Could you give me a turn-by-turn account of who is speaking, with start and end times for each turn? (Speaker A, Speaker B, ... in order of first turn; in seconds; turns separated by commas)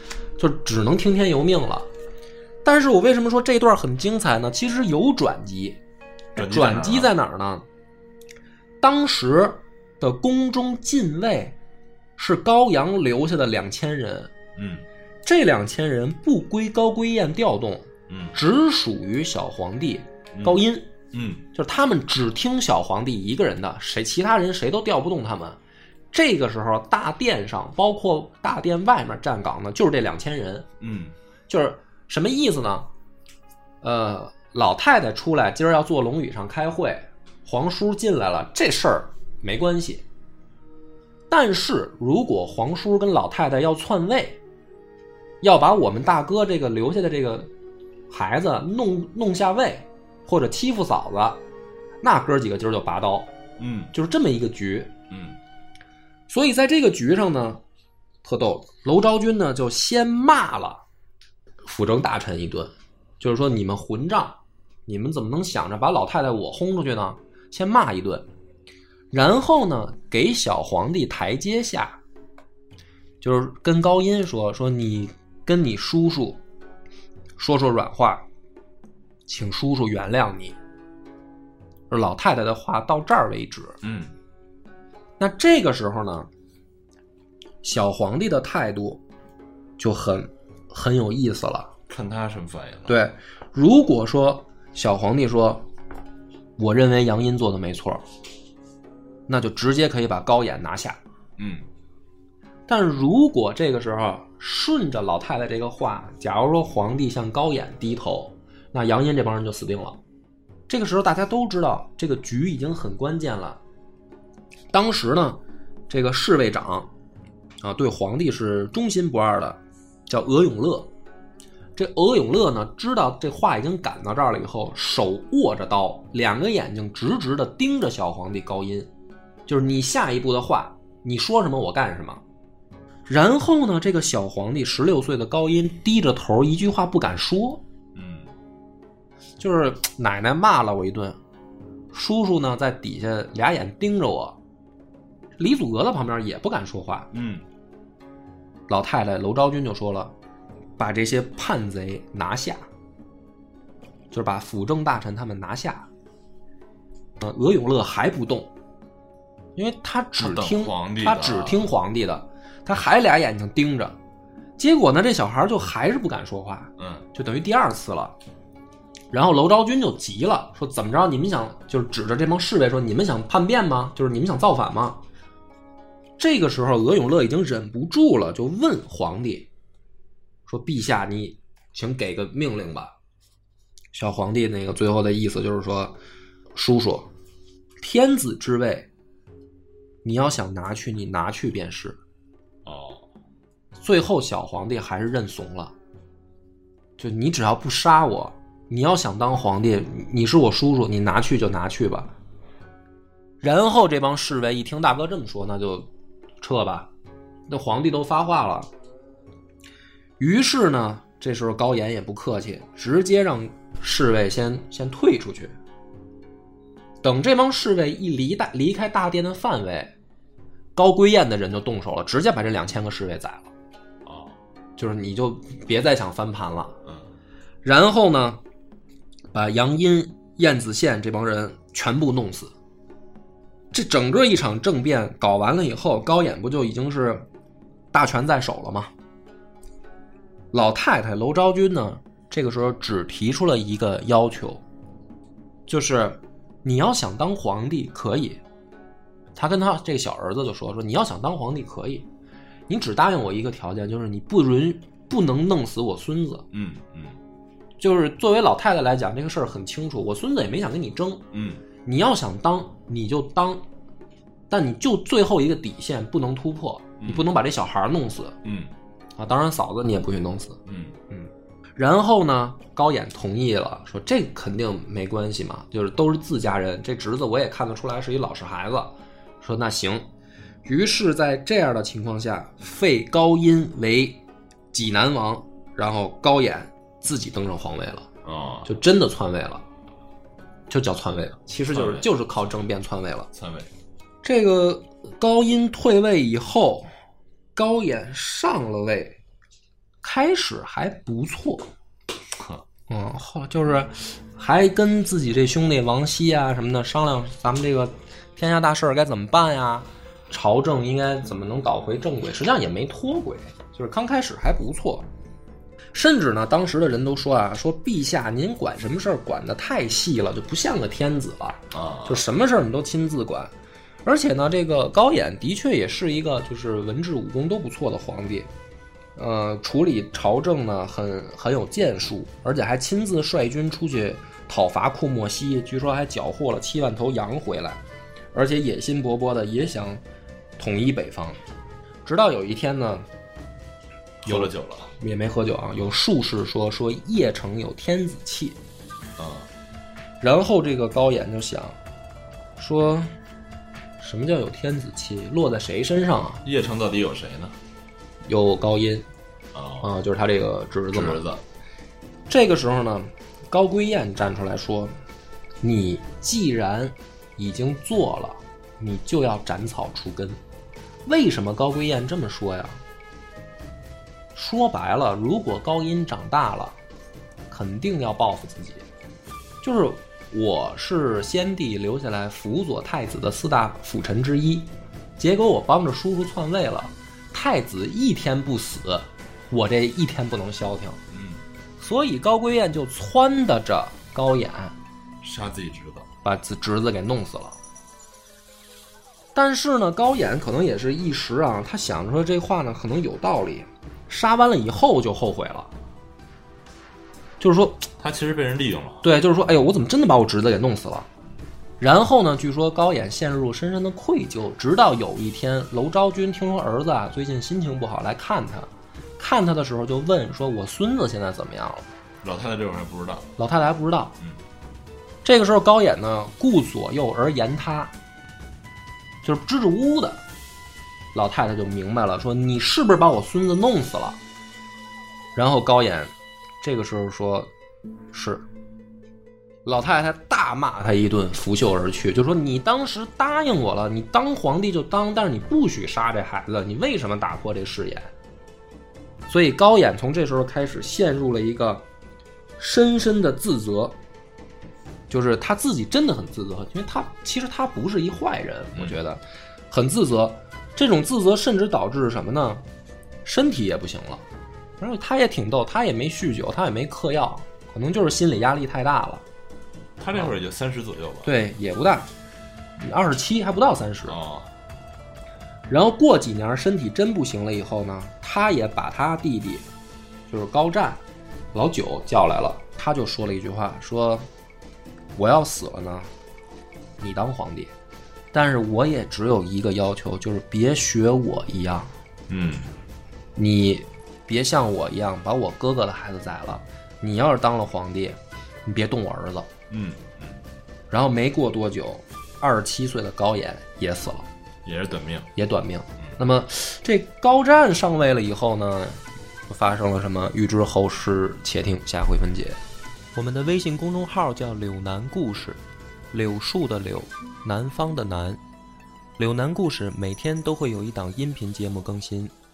Speaker A: 0.4-1.9, Speaker A: 2.6-5.8, Speaker A: 6.3-7.7, Speaker B: 6.4-7.1, Speaker A: 8.8-11.6, Speaker A: 12.2-14.3, Speaker B: 14.6-14.9, Speaker A: 15.2-20.9, Speaker B: 18.1-18.4, Speaker B: 20.3-20.6, Speaker B: 21.1-21.5, Speaker A: 21.5-25.6, Speaker A: 26.1-30.7, Speaker B: 30.8-31.1, Speaker A: 31.5-32.9, Speaker A: 33.8-40.0, Speaker A: 41.3-44.4, Speaker A: 45.4-47.5, Speaker A: 48.1-51.4, Speaker A: 52.0-53.3, Speaker B: 53.6-53.9, Speaker A: 53.9-54.9, Speaker B: 55.1-55.4, Speaker A: 56.3-57.6, Speaker A: 58.2-60.8, Speaker A: 61.6-68.3, Speaker A: 69.1-72.0, Speaker A: 73.2-76.4, Speaker A: 77.4-78.2, Speaker A: 79.3-80.6, Speaker A: 81.9-83.8, Speaker B: 83.8-84.1, Speaker A: 85.2-86.3, Speaker A: 87.6-89.0, Speaker A: 89.8-91.7, Speaker B: 91.9-93.0, Speaker A: 92.9-95.7, Speaker A: 96.6-98.0, Speaker A: 99.3-101.0, Speaker B: 101.4-101.7, Speaker A: 102.7-110.0, Speaker A: 110.7-113.6, Speaker A: 114.7-116.9, Speaker A: 117.6-120.9, Speaker A: 121.8-128.9, Speaker A: 129.5-132.2, Speaker A: 133.1-137.6, Speaker B: 137.9-138.3, Speaker A: 139.4-141.2, Speaker A: 141.9-144.4, Speaker A: 145.4-147.1, Speaker B: 147.1-147.4, Speaker A: 148.7-150.1, Speaker A: 150.8-152.6, Speaker A: 154.1-155.9, Speaker A: 157.2-158.5, Speaker A: 159.6-164.0, Speaker B: 160.2-161.7, Speaker A: 164.6-168.2, Speaker B: 166.8-167.1, Speaker A: 169.1-175.0, Speaker A: 176.2-179.5, Speaker A: 180.5-182.9, Speaker A: 183.9-186.0, Speaker A: 186.5-187.1, Speaker A: 187.8-188.9, Speaker A: 190.0-192.0, Speaker B: 192.7-193.1, Speaker A: 193.8-195.7, Speaker A: 197.0-202.1, Speaker A: 203.4-205.9, Speaker A: 206.4-206.9, Speaker A: 207.5-208.7, Speaker A: 210.2-215.6, Speaker A: 217.0-219.9, Speaker A: 220.8-223.5, Speaker B: 224.1-224.4, Speaker A: 224.8-226.8, Speaker B: 226.9-227.1, Speaker A: 227.6-228.4, Speaker A: 229.3-232.5, Speaker A: 233.7-237.2, Speaker A: 237.9-238.9, Speaker A: 240.5-244.6, Speaker A: 245.7-248.4, Speaker A: 249.4-252.1, Speaker A: 252.7-256.5, Speaker B: 256.5-257.2, Speaker A: 257.8-261.2, Speaker B: 261.3-261.6, Speaker A: 261.8-263.6, Speaker A: 264.5-268.4, Speaker B: 267.0-267.3, Speaker B: 268.4-268.7, Speaker A: 269.2-270.6, Speaker B: 270.7-271.0, Speaker A: 271.1-280.1, Speaker A: 280.6-284.2, Speaker A: 284.7-288.1, Speaker B: 288.2-288.7, Speaker A: 288.7-289.6, Speaker A: 290.7-293.3, Speaker B: 291.7-292.1, Speaker B: 293.3-293.7, Speaker A: 294.2-296.9, Speaker A: 297.6-299.2, Speaker A: 300.0-301.7, Speaker B: 302.3-302.6, Speaker A: 302.9-315.1, Speaker A: 315.9-323.5, Speaker B: 321.7-322.2, Speaker A: 324.1-328.5, Speaker A: 329.2-337.8, Speaker A: 338.3-340.0, Speaker A: 340.6-341.4, Speaker A: 342.1-343.1, Speaker B: 344.2-344.9, Speaker A: 344.2-348.6, Speaker B: 349.2-349.5, Speaker A: 350.2-351.8, Speaker A: 352.6-353.1, Speaker A: 354.0-356.4, Speaker B: 356.4-357.6, Speaker A: 358.2-359.1, Speaker B: 359.5-359.9, Speaker A: 359.8-361.2, Speaker B: 360.9-361.4, Speaker A: 362.3-364.9, Speaker A: 365.6-370.4, Speaker A: 371.1-372.8, Speaker A: 374.4-376.8, Speaker A: 377.5-378.9, Speaker A: 379.6-391.0, Speaker B: 391.1-391.4, Speaker A: 391.8-394.8, Speaker B: 395.2-396.1, Speaker A: 396.2-397.6, Speaker A: 399.4-405.7, Speaker A: 407.4-407.9, Speaker B: 408.0-409.1, Speaker A: 409.0-411.1, Speaker A: 411.8-421.9, Speaker B: 422.2-423.3, Speaker A: 423.4-424.2, Speaker A: 425.2-427.9, Speaker A: 429.2-430.2, Speaker A: 431.1-434.2, Speaker A: 435.4-437.5, Speaker A: 438.1-438.5, Speaker A: 439.6-448.1, Speaker A: 449.3-451.9, Speaker A: 452.6-454.0, Speaker A: 455.1-462.6, Speaker A: 463.2-464.2, Speaker A: 464.8-469.2, Speaker B: 470.0-471.3, Speaker A: 471.2-472.1, Speaker A: 472.8-474.2, Speaker B: 474.1-474.5, Speaker A: 475.7-479.7, Speaker A: 480.3-481.0, Speaker A: 481.5-484.3, Speaker A: 485.1-486.1, Speaker A: 487.0-487.7, Speaker A: 488.3-491.9, Speaker B: 492.3-492.7, Speaker A: 493.4-499.5, Speaker B: 499.7-500.4, Speaker A: 500.9-504.3, Speaker B: 504.6-505.3, Speaker A: 505.4-512.6, Speaker A: 513.1-515.6, Speaker A: 516.1-518.4, Speaker A: 519.2-522.3